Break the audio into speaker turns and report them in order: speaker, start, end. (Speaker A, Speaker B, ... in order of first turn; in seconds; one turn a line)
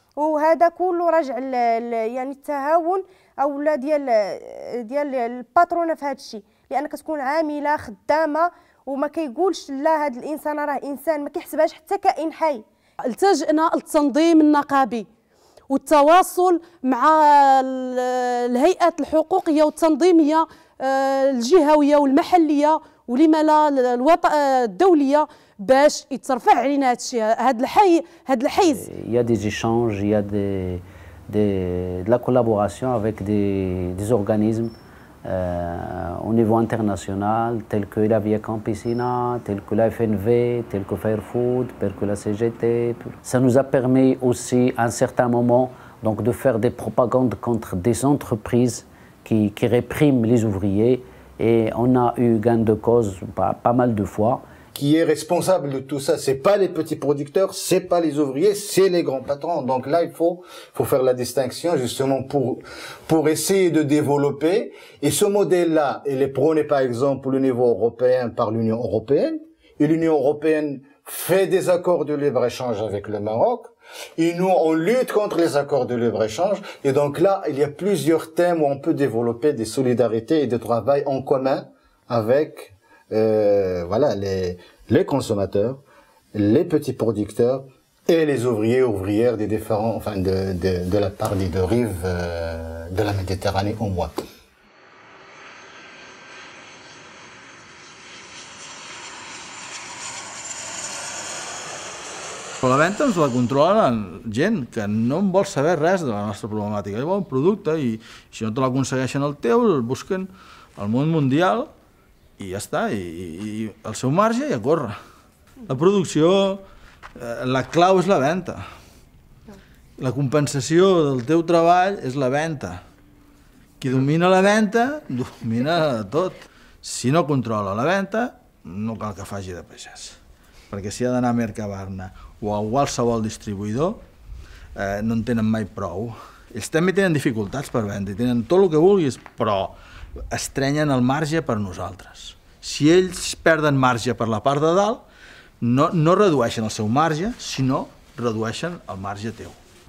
Speaker A: 0.2-12.6
Speaker A: 13.1-15.1
Speaker A: 15.7-16.5
Speaker B: 18.5-19.3
Speaker A: 19.6-20.1
Speaker B: 20.9-25.2
Speaker B: 25.8-26.2
Speaker A: 26.1-26.8
Speaker B: 26.9-28.5
Speaker C: 28.8-34.7
Speaker C: 35.3-54.4
Speaker D: 54.7-85.8
Speaker D: 86.3-94.1
Speaker E: 102.6-111.7
Speaker E: 112.4-115.0
Speaker E: 115.7-116.6
Speaker E: 117.2-118.7
Speaker E: 120.0-122.8
Speaker E: 123.8-130.2
Speaker E: 130.7-134.0
Speaker E: 134.8-139.8
Speaker E: 140.3-145.0
Speaker E: 145.6-149.6